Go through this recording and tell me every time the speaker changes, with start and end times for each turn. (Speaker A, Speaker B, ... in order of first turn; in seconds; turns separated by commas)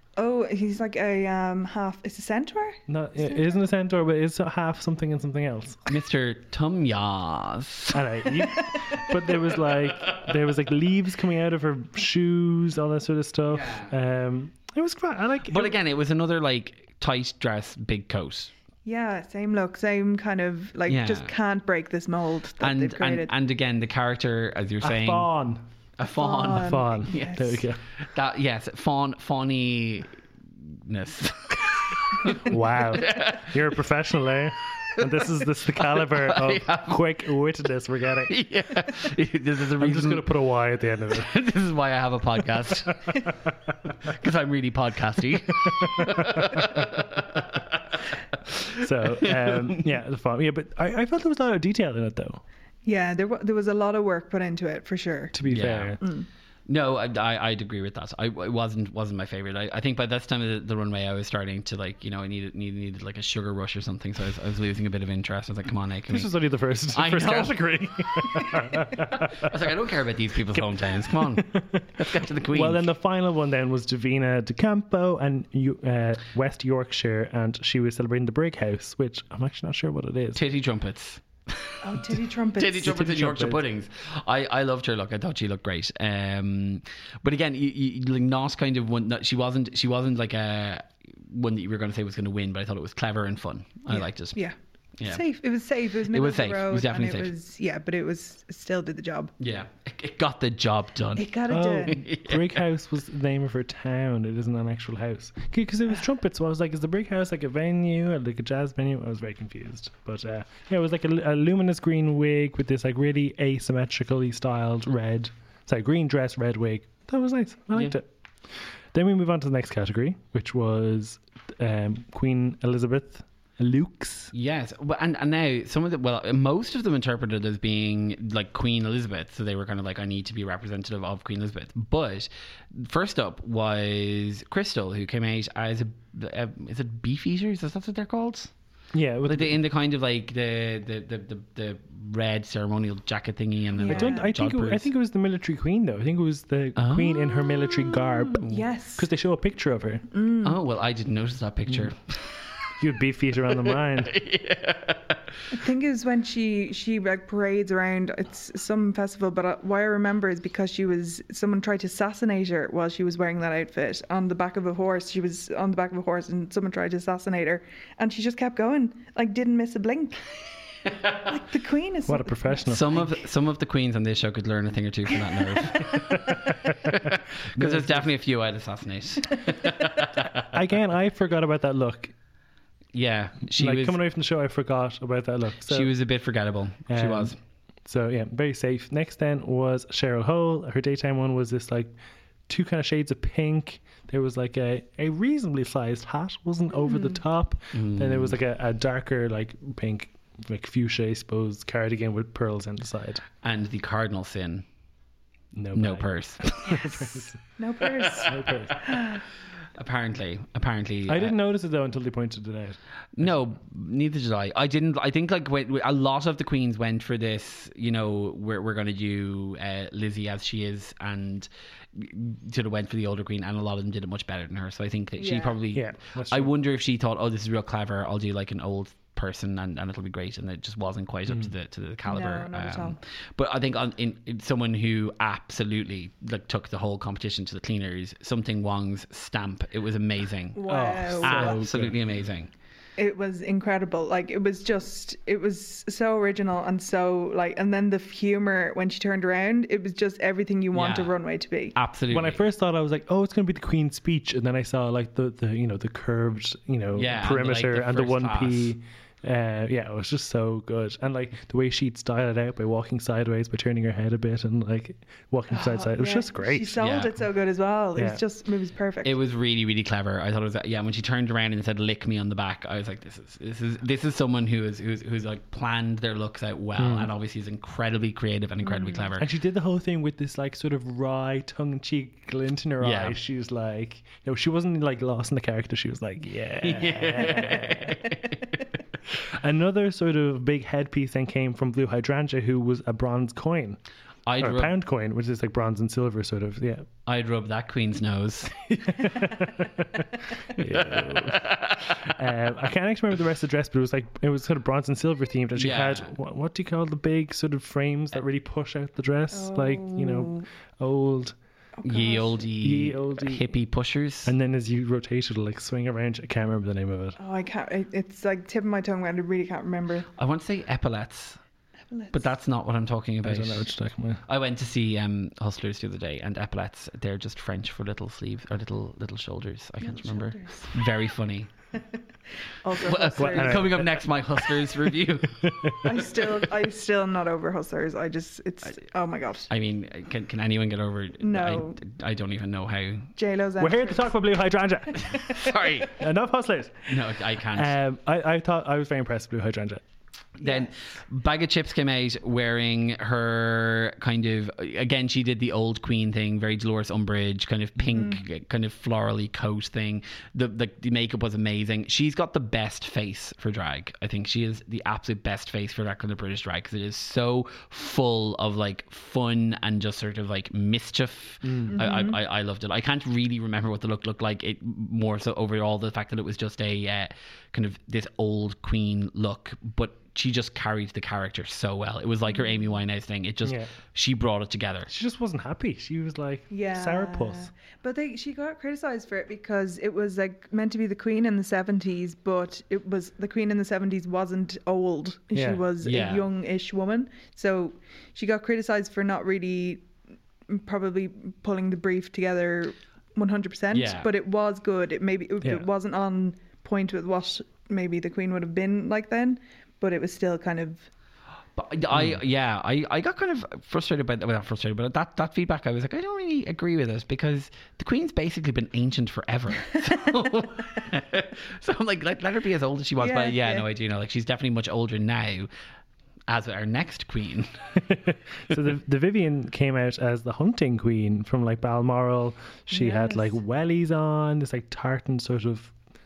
Speaker A: 0.2-3.6, Speaker B: 2.9-5.9, Speaker C: 5.9-8.1, Speaker B: 7.9-15.8, Speaker A: 8.4-9.3, Speaker C: 13.5-13.9, Speaker C: 15.5-18.5, Speaker A: 18.9-23.3, Speaker C: 20.9-21.3, Speaker C: 22.6-25.3, Speaker B: 24.8-25.6, Speaker C: 26.0-33.6, Speaker A: 26.1-27.6, Speaker B: 26.5-27.8, Speaker B: 32.3-38.3, Speaker C: 34.9-37.2, Speaker C: 38.3-40.3, Speaker B: 39.8-41.3, Speaker C: 41.1-43.3, Speaker C: 43.9-49.8, Speaker B: 45.7-47.0, Speaker B: 48.7-52.4, Speaker A: 52.9-55.4, Speaker B: 55.3-56.0, Speaker C: 55.5-56.0, Speaker A: 56.0-56.3, Speaker C: 56.7-66.3, Speaker B: 66.1-69.5, Speaker C: 66.9-72.9, Speaker B: 70.5-80.4, Speaker C: 80.3-94.4, Speaker A: 81.8-83.0, Speaker B: 82.8-83.6, Speaker A: 93.9-99.3, Speaker C: 96.1-97.3, Speaker C: 99.4-102.6, Speaker A: 101.2-102.0, Speaker B: 101.5-118.1, Speaker B: 118.9-124.3, Speaker C: 124.3-138.5, Speaker B: 138.9-139.6, Speaker C: 139.3-144.9, Speaker A: 143.8-144.3, Speaker B: 143.9-150.1, Speaker C: 146.8-147.5, Speaker A: 148.3-149.1, Speaker A: 150.1-150.6, Speaker C: 150.4-152.7, Speaker B: 152.8-154.2, Speaker C: 153.5-155.4, Speaker A: 155.5-173.0, Speaker B: 172.1-173.0, Speaker C: 172.7-180.5, Speaker B: 175.9-178.1, Speaker B: 180.4-182.1, Speaker C: 182.9-184.0, Speaker B: 183.6-185.9, Speaker C: 185.7-187.4, Speaker B: 186.9-187.3, Speaker B: 187.8-191.9, Speaker B: 192.5-203.2, Speaker A: 196.8-197.2, Speaker C: 197.7-198.4, Speaker C: 203.4-204.7, Speaker B: 205.5-207.4, Speaker C: 205.7-207.2, Speaker A: 207.6-209.2, Speaker B: 208.1-208.8, Speaker C: 209.8-211.3, Speaker B: 211.1-213.3, Speaker C: 213.2-242.5, Speaker A: 225.2-225.6, Speaker B: 225.7-226.5, Speaker A: 232.1-233.0, Speaker A: 240.6-241.6, Speaker B: 240.7-241.9, Speaker A: 243.0-251.8, Speaker C: 250.7-251.2, Speaker C: 251.8-252.4, Speaker B: 252.1-266.8, Speaker C: 256.9-258.7, Speaker A: 265.5-269.1, Speaker C: 266.8-267.1, Speaker C: 269.0-279.3, Speaker B: 276.8-277.1, Speaker A: 278.6-279.1, Speaker B: 279.2-288.1, Speaker C: 282.8-283.2, Speaker C: 286.6-288.7, Speaker B: 289.1-293.8, Speaker C: 294.3-294.7, Speaker B: 294.4-296.9, Speaker C: 297.1-299.2, Speaker B: 298.7-311.4, Speaker C: 300.6-302.1, Speaker C: 305.6-306.1, Speaker A: 309.3-310.5, Speaker A: 311.8-312.4, Speaker C: 311.8-314.3, Speaker B: 312.6-313.5, Speaker B: 314.3-317.2, Speaker A: 317.2-320.1, Speaker C: 320.2-321.4, Speaker A: 321.9-322.3, Speaker C: 322.1-323.7, Speaker B: 323.2-324.2, Speaker C: 324.3-331.5, Speaker A: 329.8-330.7, Speaker A: 332.5-333.8, Speaker C: 332.8-335.8, Speaker B: 333.2-334.0, Speaker B: 334.9-336.1, Speaker A: 335.8-339.5, Speaker C: 339.5-343.1, Speaker A: 341.2-341.8, Speaker A: 343.2-344.1, Speaker B: 343.6-347.0, Speaker C: 344.9-346.0, Speaker C: 346.9-347.8, Speaker B: 347.5-349.8, Speaker C: 350.4-384.9, Speaker A: 350.4-350.7, Speaker A: 357.9-358.2, Speaker B: 371.4-371.7, Speaker A: 371.7-372.2, Speaker B: 383.4-383.7, Speaker B: 384.9-387.5, Speaker A: 386.5-399.9, Speaker B: 395.3-395.6, Speaker C: 395.8-396.3, Speaker A: 400.5-410.9, Speaker C: 403.7-404.1, Speaker C: 411.6-425.5, Speaker A: 419.7-420.1, Speaker A: 423.0-423.7, Speaker C: 426.3-427.5, Speaker B: 427.8-435.7, Speaker A: 432.7-433.4